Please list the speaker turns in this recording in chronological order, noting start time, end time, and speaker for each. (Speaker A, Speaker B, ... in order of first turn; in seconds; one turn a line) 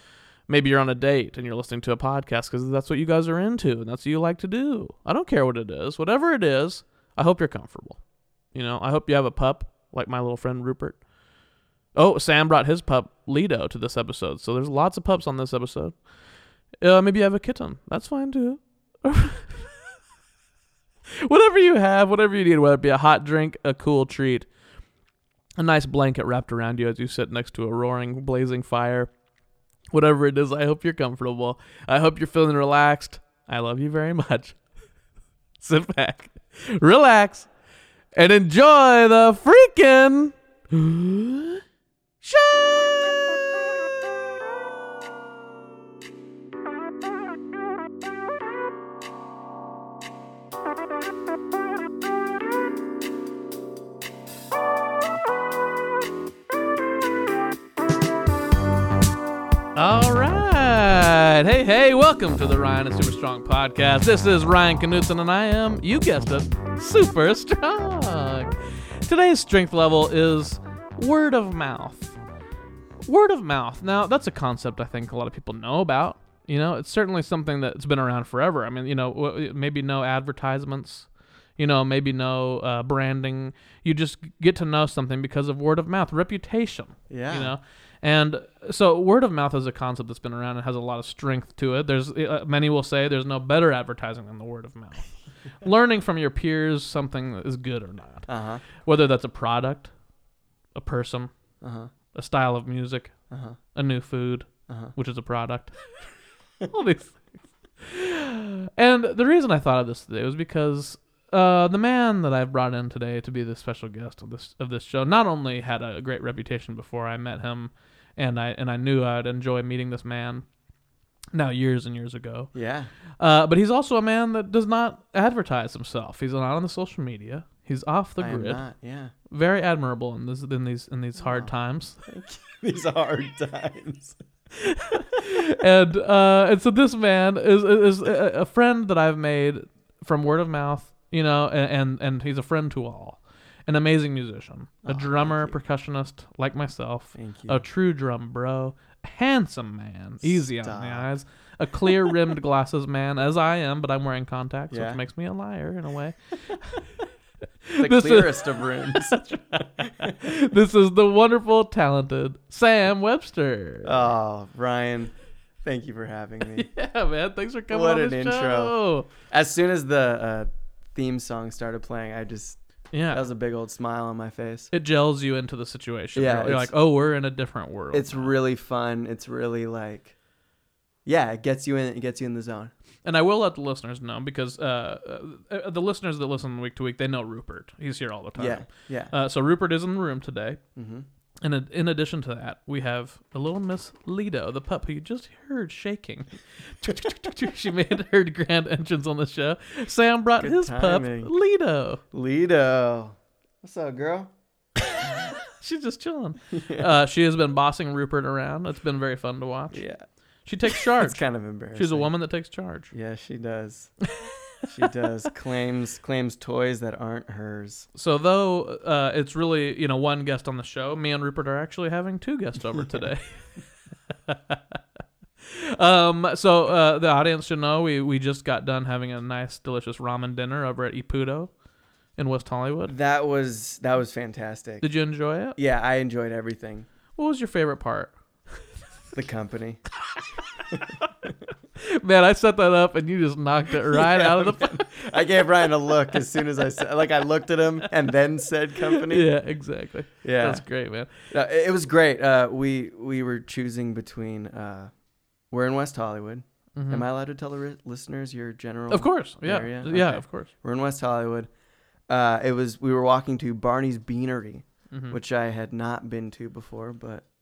Speaker A: 0.5-8.0
Speaker A: 8.5-11.0
Speaker A: 11.9-16.0
Speaker A: 16.8-19.6
Speaker A: 21.2-24.5
Speaker A: 25.6-29.1
Speaker A: 29.9-34.6
Speaker A: 35.6-37.5
Speaker A: 38.1-41.6
Speaker A: 42.2-43.2
Speaker A: 59.8-72.2
Speaker A: 73.1-81.1
Speaker A: 81.6-95.1
Speaker B: 87.1-87.5
Speaker A: 95.6-98.3
Speaker B: 98.3-98.7
Speaker A: 98.8-99.9
Speaker A: 100.8-101.3
Speaker B: 101.6-101.9
Speaker A: 102.1-103.1
Speaker B: 103.3-103.6
Speaker A: 103.8-105.9
Speaker B: 104.7-104.9
Speaker A: 106.7-107.2
Speaker A: 107.8-120.5
Speaker A: 121.3-122.5
Speaker B: 122.5-122.9
Speaker A: 123.2-128.6
Speaker B: 128.2-129.1
Speaker A: 129.3-132.0
Speaker B: 131.2-131.5
Speaker B: 132.1-134.2
Speaker A: 134.5-156.8
Speaker B: 144.8-145.6
Speaker B: 147.2-147.6
Speaker B: 150.2-151.1
Speaker B: 151.9-152.2
Speaker B: 154.7-155.0
Speaker A: 157.7-164.1
Speaker B: 157.8-160.2
Speaker B: 163.8-166.7
Speaker A: 166.5-169.1
Speaker B: 167.7-172.6
Speaker A: 172.9-173.2
Speaker B: 173.1-174.7
Speaker A: 174.7-178.4
Speaker B: 176.2-176.7
Speaker B: 177.9-180.2
Speaker B: 181.1-182.7
Speaker A: 183.0-190.6
Speaker B: 188.4-189.1
Speaker B: 190.8-191.1
Speaker A: 191.4-202.0
Speaker B: 200.4-201.3
Speaker B: 202.1-204.3
Speaker A: 205.3-209.8
Speaker B: 206.5-206.9
Speaker B: 209.7-210.0
Speaker A: 210.4-211.2
Speaker B: 210.7-212.1
Speaker A: 211.7-212.9
Speaker B: 212.9-213.9
Speaker B: 214.7-217.9
Speaker A: 217.9-223.5
Speaker A: 224.1-224.8
Speaker A: 225.4-231.5
Speaker A: 232.2-232.9
Speaker B: 232.9-234.9
Speaker A: 234.8-235.6
Speaker B: 235.6-236.9
Speaker A: 237.2-238.1
Speaker B: 239.1-239.8
Speaker B: 240.7-241.3
Speaker A: 241.8-244.9
Speaker B: 243.9-249.3
Speaker A: 248.9-251.1
Speaker B: 250.2-250.6
Speaker B: 251.3-254.9
Speaker B: 255.5-261.5
Speaker A: 256.8-257.1
Speaker A: 258.9-260.5
Speaker B: 262.1-267.2
Speaker A: 264.9-265.2